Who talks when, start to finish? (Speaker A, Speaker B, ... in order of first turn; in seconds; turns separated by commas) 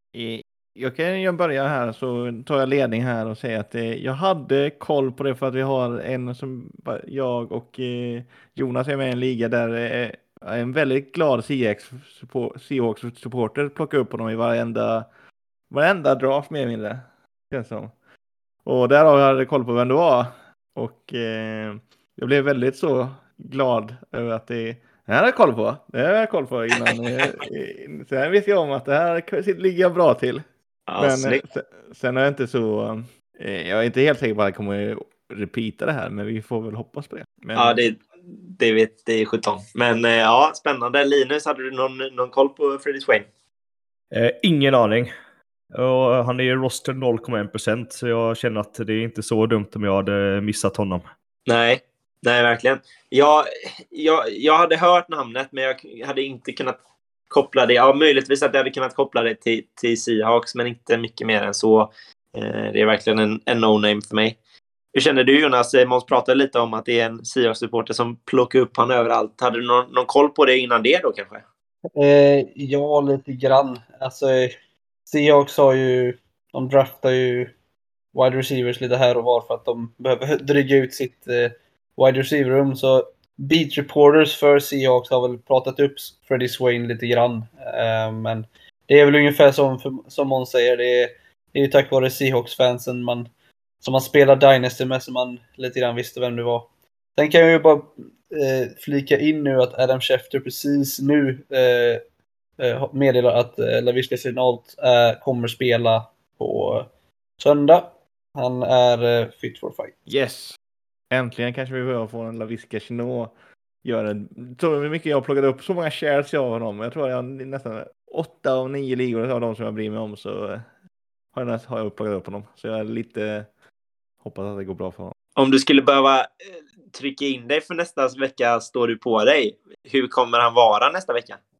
Speaker A: 0.1-15.1, Speaker A: 15.7-17.9, Speaker A: 18.6-30.4, Speaker B: 30.9-31.4, Speaker A: 31.0-37.8, Speaker B: 37.5-43.2, Speaker C: 44.1-45.1, Speaker C: 45.8-51.1, Speaker B: 51.5-56.8, Speaker B: 57.3-64.4, Speaker B: 64.9-71.4, Speaker D: 72.0-74.5, Speaker D: 75.1-77.5, Speaker D: 78.1-93.3, Speaker D: 93.8-102.0, Speaker D: 102.6-106.9, Speaker D: 107.4-110.0, Speaker A: 110.1-110.6, Speaker A: 111.1-113.3, Speaker A: 113.8-120.6, Speaker A: 121.3-123.5, Speaker A: 124.2-125.1, Speaker B: 125.3-126.3, Speaker B: 126.9-131.4